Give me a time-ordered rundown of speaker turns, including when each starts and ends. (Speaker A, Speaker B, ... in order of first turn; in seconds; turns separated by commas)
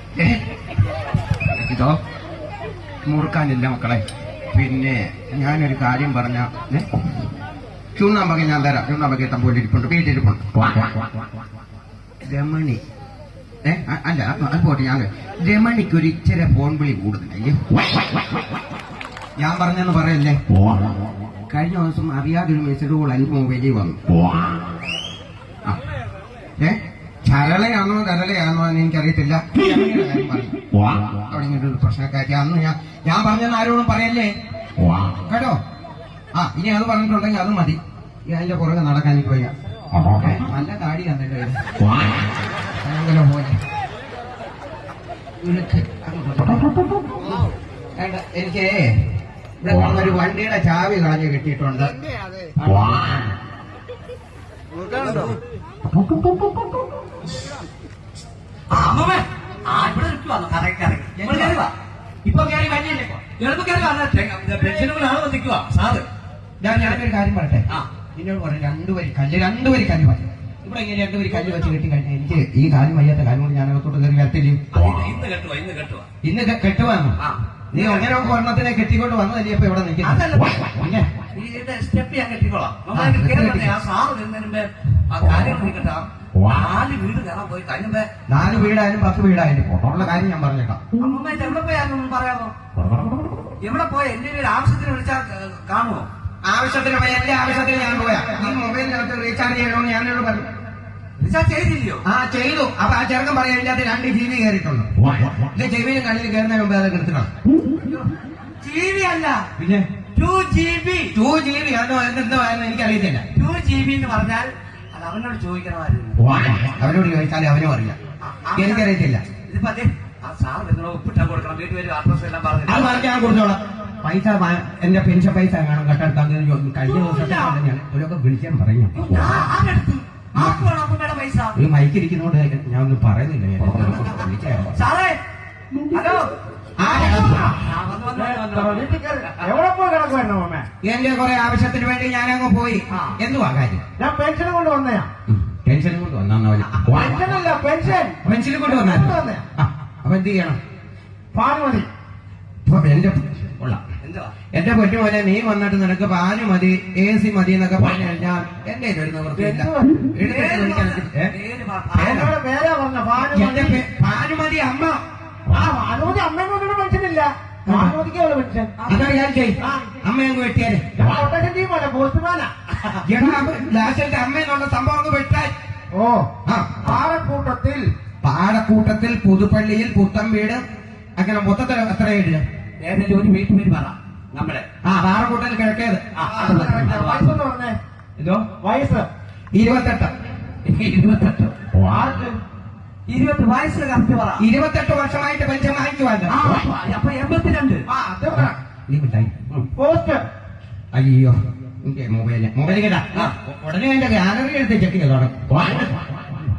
Speaker A: 1.5-2.0, Speaker A: 3.0-6.8, Speaker A: 8.0-10.5, Speaker A: 12.2-12.8, Speaker A: 13.6-17.8, Speaker A: 19.4-20.4, Speaker A: 21.5-24.0, Speaker A: 26.6-34.3, Speaker A: 35.2-35.6, Speaker A: 36.3-39.5, Speaker A: 40.1-42.2, Speaker A: 42.8-43.6, Speaker A: 45.4-46.7, Speaker A: 48.0-49.0, Speaker A: 49.6-51.9, Speaker A: 52.6-53.3, Speaker B: 58.7-61.7, Speaker A: 61.1-61.6, Speaker B: 62.2-66.0, Speaker A: 66.6-74.6, Speaker B: 66.7-67.0, Speaker B: 74.7-76.1, Speaker A: 76.2-77.2, Speaker B: 77.2-78.2, Speaker A: 77.7-80.2, Speaker B: 80.0-80.7, Speaker A: 80.8-81.1, Speaker B: 81.3-88.1, Speaker A: 82.9-83.8, Speaker A: 88.3-90.8, Speaker B: 90.9-92.5, Speaker B: 93.6-96.1, Speaker A: 96.4-100.5, Speaker B: 101.2-102.0, Speaker A: 102.0-107.3, Speaker B: 108.6-109.5, Speaker A: 109.6-109.9, Speaker B: 110.1-111.1, Speaker A: 111.1-113.2, Speaker B: 113.3-116.3, Speaker A: 116.2-118.0, Speaker B: 118.2-118.9, Speaker A: 118.5-119.2, Speaker B: 119.5-123.0, Speaker A: 122.7-129.4, Speaker B: 126.8-127.6, Speaker B: 128.9-131.6, Speaker A: 130.3-130.6, Speaker A: 131.5-134.8, Speaker B: 134.7-135.2, Speaker B: 135.9-136.3, Speaker A: 136.8-137.6, Speaker C: 137.0-137.4, Speaker B: 137.1-139.4, Speaker C: 138.1-140.7, Speaker A: 140.8-143.8, Speaker B: 142.9-143.2, Speaker C: 144.0-145.1, Speaker A: 145.3-147.3, Speaker C: 146.9-149.4, Speaker A: 148.2-150.6, Speaker C: 151.3-151.9, Speaker A: 152.7-153.8, Speaker B: 154.0-154.3, Speaker A: 154.5-161.3, Speaker C: 159.3-160.1, Speaker B: 160.2-162.2, Speaker C: 161.9-163.8, Speaker A: 162.0-162.3, Speaker A: 163.3-165.0, Speaker C: 165.5-168.7, Speaker A: 167.7-168.0, Speaker B: 168.8-169.2, Speaker A: 168.9-171.0, Speaker C: 169.6-169.8, Speaker C: 170.9-172.5, Speaker A: 173.0-175.5, Speaker C: 175.9-176.3, Speaker A: 176.4-177.0, Speaker C: 176.8-177.8, Speaker A: 178.2-180.6, Speaker A: 181.2-182.4, Speaker B: 182.8-184.6, Speaker A: 184.8-186.9, Speaker B: 186.1-187.4, Speaker C: 186.2-187.8, Speaker B: 188.2-188.5, Speaker C: 188.6-189.1, Speaker A: 189.5-190.1, Speaker B: 190.6-191.5, Speaker C: 191.9-192.3, Speaker B: 193.1-194.4, Speaker A: 194.4-196.3, Speaker B: 196.3-197.8, Speaker C: 197.9-198.5, Speaker A: 198.3-199.7, Speaker C: 199.7-200.2, Speaker A: 200.9-205.9